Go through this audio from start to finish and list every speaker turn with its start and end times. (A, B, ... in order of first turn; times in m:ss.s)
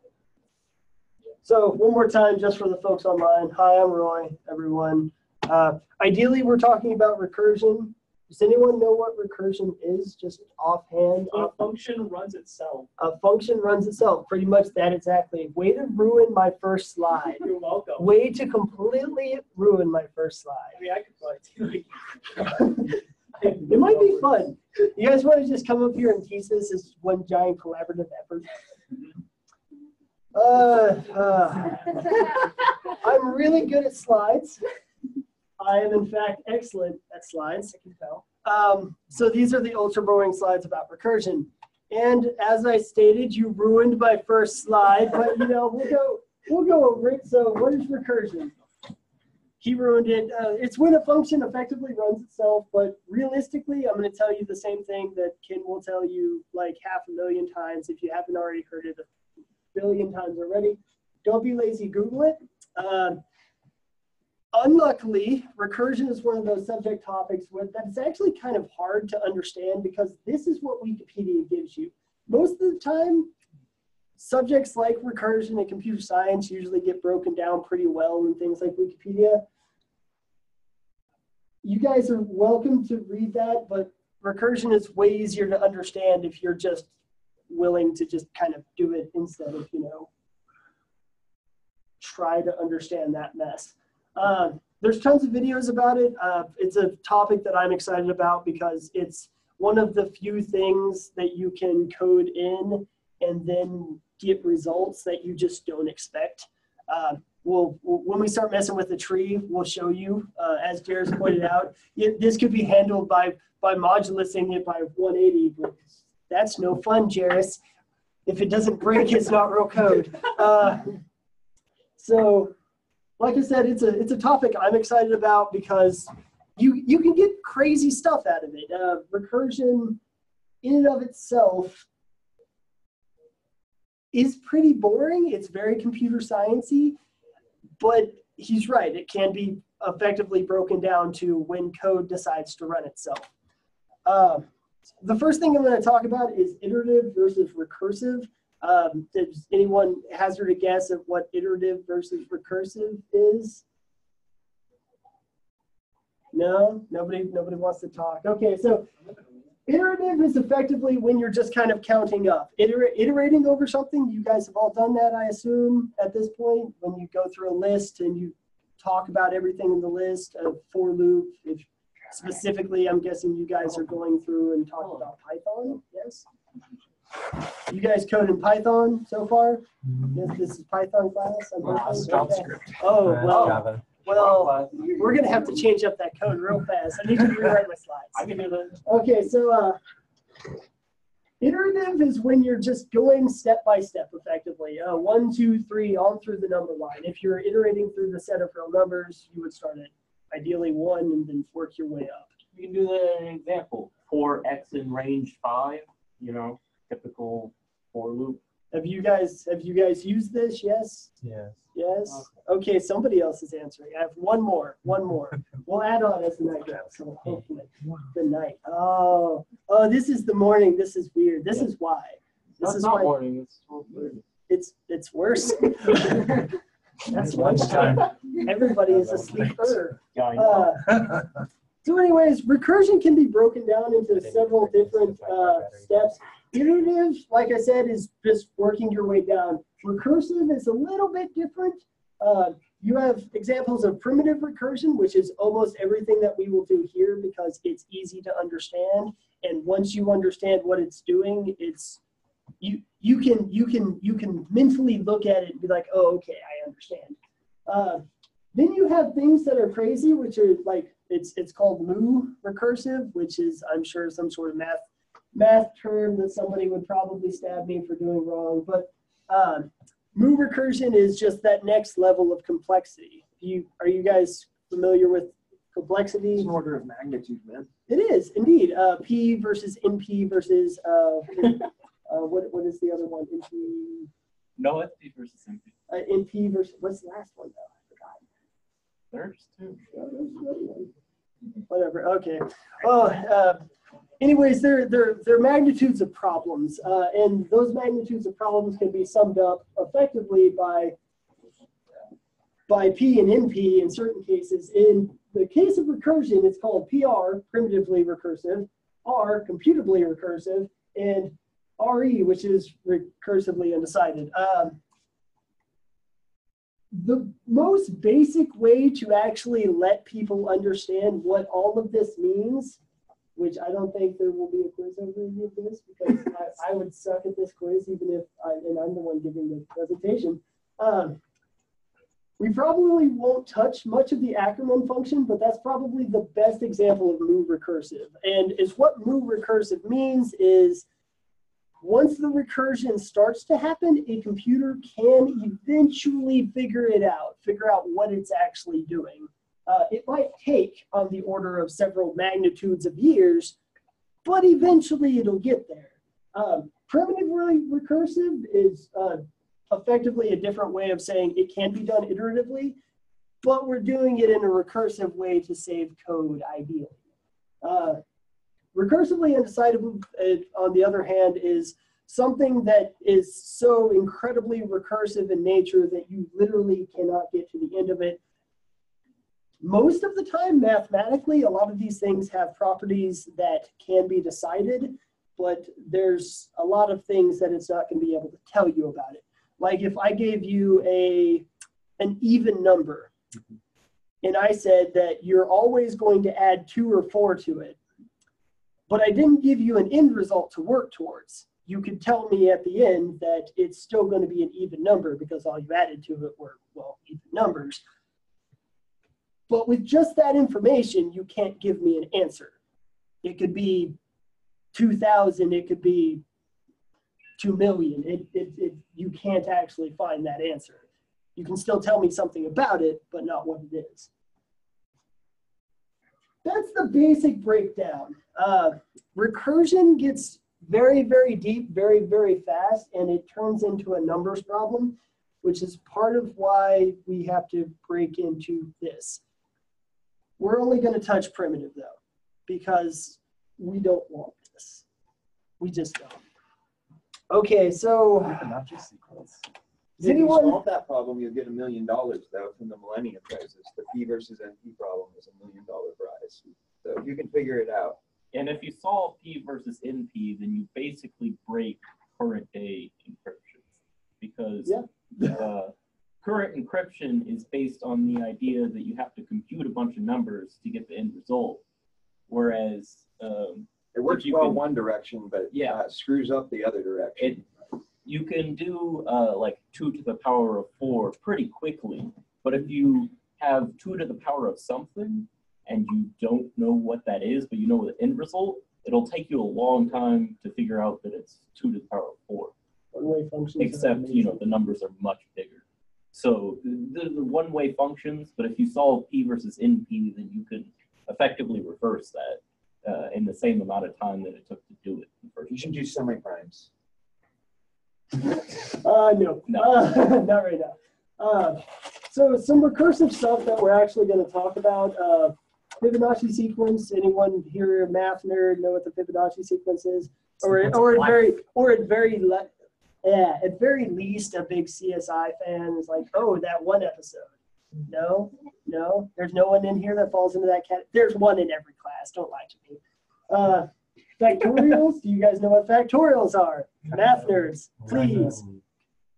0:01.4-0:11.6 A
0:11.3-0:12.9 B
0:13.0-0:17.5 A
0:17.3-0:18.1 B
0:18.0-0:20.8 A
0:20.7-0:22.7 B
0:22.4-0:23.0 A
0:23.4-0:24.3 B
0:23.6-0:28.5 A
0:30.3-0:34.6 A
0:35.6-0:48.5 A
0:37.8-0:38.2 B
0:49.6-0:59.0 A
0:59.7-1:03.2 A
1:04.5-1:13.3 A
1:14.2-1:19.4 A
1:21.6-1:26.9 A
1:27.5-1:30.1 A
1:32.0-1:57.6 A
1:58.2-2:01.0 A
2:02.0-2:02.5 A
2:03.2-2:10.0 A
2:10.6-2:11.8 A
2:14.1-2:17.0 A
2:17.8-2:23.3 A
2:24.0-2:24.5 A
2:25.0-2:33.6 A
2:36.3-2:38.9 A
2:39.7-2:56.2 A
2:57.7-3:08.2 A
3:01.6-3:04.5 C
3:01.7-3:02.6 B
3:02.0-3:02.5 D
3:04.1-3:04.8 D
3:04.2-3:05.4 B
3:08.1-3:08.8 B
3:08.8-3:09.8 A
3:11.4-3:22.3 A
3:22.5-3:28.4 D
3:28.7-3:31.1 A
3:31.2-3:31.7 C
3:31.7-3:43.2 A
3:42.6-3:44.2 D
3:44.5-3:46.5 A
3:47.1-3:51.1 A
3:47.1-3:48.1 C
3:48.7-3:49.8 C
3:50.1-3:50.8 D
3:50.9-3:51.2 C
3:51.8-4:12.0 A
3:54.1-3:56.2 C
4:12.6-4:17.2 A
4:17.7-4:36.5 A
4:36.4-4:37.7 E
4:37.9-4:44.1 A
4:44.6-4:45.7 D
4:45.9-4:48.2 A
4:49.1-4:49.8 D
4:49.9-4:50.9 A
4:51.7-4:53.6 A
4:54.2-5:00.9 A
5:02.7-5:14.8 A
5:16.9-5:22.8 A
5:23.4-5:31.2 A
5:32.4-5:40.8 A
5:41.8-5:53.6 A
5:54.2-6:02.8 A
6:03.4-6:07.0 A
6:07.6-6:08.0 A
6:08.7-6:18.2 A
6:19.6-6:31.5 A
6:32.0-6:33.1 A
6:34.2-6:37.8 A
6:38.9-6:47.8 A
6:49.5-6:52.5 A
6:53.2-6:54.0 A
6:54.7-6:56.2 A
6:57.4-7:00.8 A
7:01.4-7:04.1 A
7:06.4-7:19.2 A
7:20.4-7:22.0 A
7:22.5-7:24.8 A
7:25.6-7:26.2 A
7:27.3-7:28.6 A
7:28.2-7:29.4 C
7:30.0-7:30.6 A
7:30.0-7:38.0 E
7:38.3-7:43.7 D
7:44.2-7:51.6 D
7:44.6-7:45.4 A
7:52.3-7:54.6 D
7:53.9-7:57.4 E
7:55.5-7:55.8 D
7:58.0-8:12.5 D
8:12.9-8:14.4 A
8:13.6-8:25.8 D
8:25.5-8:26.7 E
8:28.4-8:42.5 A
8:29.5-8:29.8 D
8:40.5-8:41.2 C
8:43.0-8:47.3 A
8:47.9-8:58.4 A
8:57.8-8:58.6 C